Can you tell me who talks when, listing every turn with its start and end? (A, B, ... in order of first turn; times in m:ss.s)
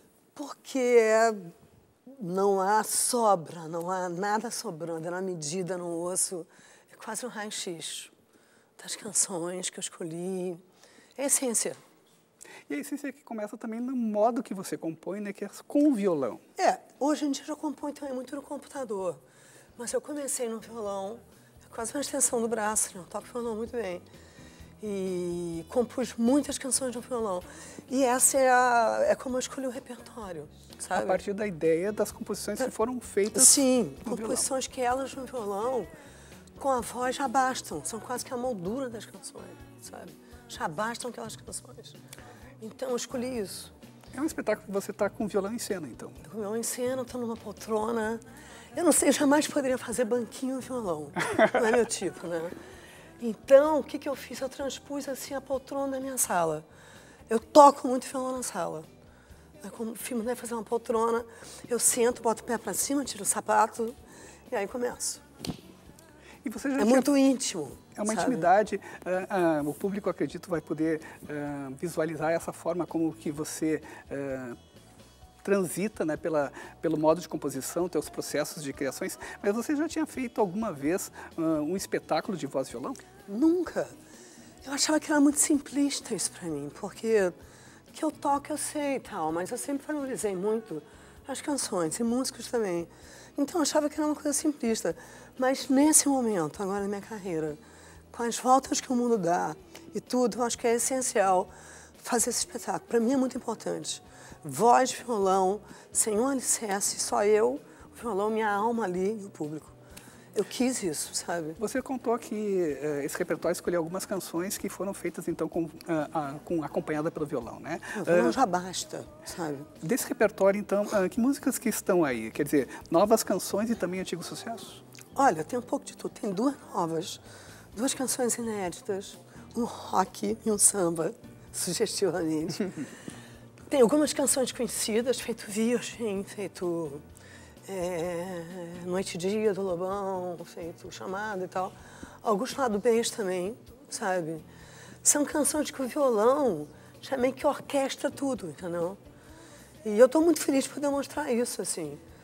0:00.3-0:01.4 A
0:02.1-0:08.1 A
0:08.8-0:10.6 A
0:11.2-0:11.8 A
0:12.7-0:16.4 B
0:16.6-0:19.2 A
0:19.8-0:24.0 A
0:24.8-0:31.2 A
0:30.9-0:34.4 B
0:33.3-0:35.9 A
0:36.6-0:42.0 A
0:42.6-0:43.7 A
0:44.1-0:46.2 B
0:46.2-0:48.2 A
0:48.7-0:52.5 A
0:53.2-0:56.6 A
0:57.3-0:58.9 A
0:59.6-1:04.0 A
1:04.5-1:05.2 A
1:06.4-1:07.1 B
1:06.8-1:08.5 A
1:07.9-1:14.6 B
1:15.4-1:23.0 B
1:23.3-1:23.9 A
1:24.6-1:27.4 A
1:27.9-1:37.6 A
1:38.1-1:49.7 A
1:50.3-1:51.6 A
1:51.6-1:58.4 B
1:57.9-1:59.7 A
1:59.8-2:04.8 B
2:05.1-2:07.2 A
2:07.7-2:12.7 A
2:13.7-2:17.0 A
2:17.6-2:24.4 A
2:25.0-2:29.0 A
2:29.8-2:32.0 A